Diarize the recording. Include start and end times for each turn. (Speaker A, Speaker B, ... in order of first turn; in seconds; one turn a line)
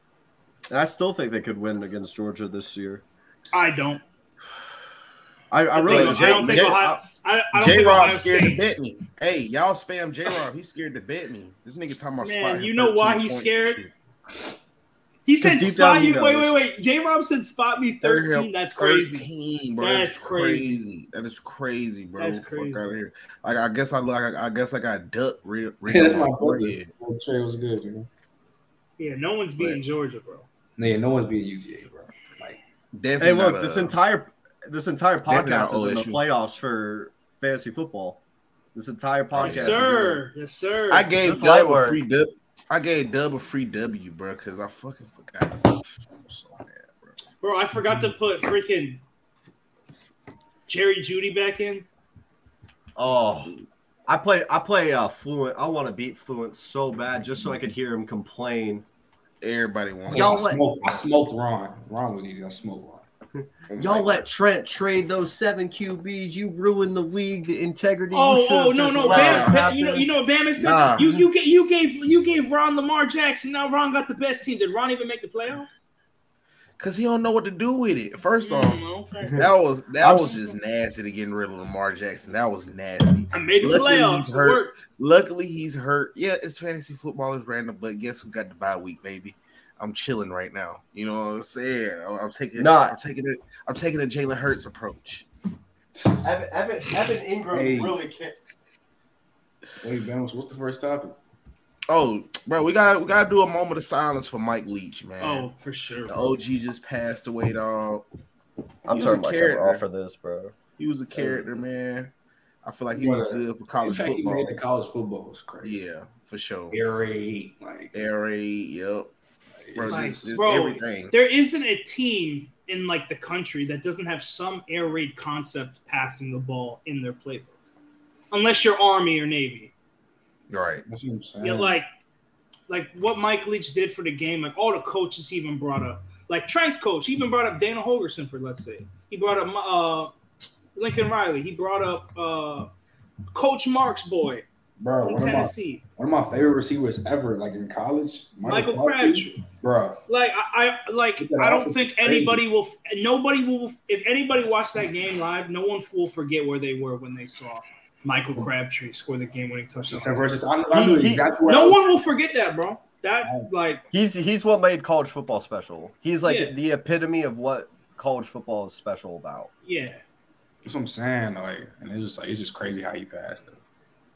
Speaker A: 0.7-3.0
Speaker B: 3.5-4.0
Speaker A: 5.5-7.0
Speaker B: 5.7-8.6
Speaker C: 5.9-6.8
Speaker C: 7.5-13.9
Speaker B: 12.2-13.8
Speaker B: 15.3-19.3
Speaker A: 15.4-16.5
Speaker C: 18.0-26.9
Speaker B: 19.8-20.8
Speaker B: 22.2-22.8
Speaker D: 25.9-28.1
Speaker B: 29.0-30.5
Speaker D: 30.8-32.6
Speaker C: 33.0-34.0
Speaker A: 33.2-38.2
Speaker C: 35.3-36.2
Speaker A: 38.8-40.2
Speaker C: 39.4-39.8
Speaker B: 39.4-41.1
Speaker C: 40.9-47.1
Speaker A: 41.2-42.0
Speaker B: 47.4-49.0
Speaker B: 50.7-51.9
Speaker A: 53.0-53.5
Speaker C: 53.4-53.6
Speaker A: 54.1-58.8
Speaker C: 59.4-60.5
Speaker D: 60.1-63.0
Speaker A: 60.1-60.6
Speaker C: 63.7-64.2
Speaker A: 63.7-70.1
Speaker B: 68.1-75.8
Speaker C: 69.0-69.6
Speaker C: 70.6-71.1
Speaker C: 76.8-95.3
Speaker B: 78.4-79.5
Speaker B: 80.0-80.5
Speaker B: 83.3-84.8
Speaker A: 92.6-93.0
Speaker D: 96.0-96.3
Speaker A: 96.2-98.4
Speaker D: 97.5-98.0
Speaker D: 99.8-101.2
Speaker C: 101.9-105.5
Speaker B: 105.2-106.4
Speaker C: 106.1-108.0
Speaker A: 108.9-110.5
Speaker C: 108.9-109.8
Speaker C: 110.8-112.1
Speaker A: 111.1-111.5
Speaker C: 112.6-114.6
Speaker D: 112.9-115.8
Speaker C: 115.6-116.8
Speaker D: 116.7-117.9
Speaker C: 117.9-119.1
Speaker D: 119.7-120.2
Speaker C: 119.7-121.1
Speaker B: 119.9-127.5
Speaker B: 128.3-129.7
Speaker C: 130.5-130.8
Speaker D: 130.9-131.8
Speaker B: 131.4-131.9
Speaker B: 132.7-140.1
Speaker B: 140.8-142.7
Speaker B: 143.3-144.4
Speaker D: 144.8-150.0
Speaker B: 145.1-145.8
Speaker B: 148.5-149.3
Speaker B: 150.1-160.6
Speaker D: 151.2-152.4
Speaker D: 159.9-161.8
Speaker A: 160.7-161.3
Speaker B: 161.5-163.8
Speaker D: 163.2-163.5
Speaker A: 163.9-169.5
Speaker B: 166.2-166.6
Speaker B: 169.7-170.0
Speaker D: 170.7-173.6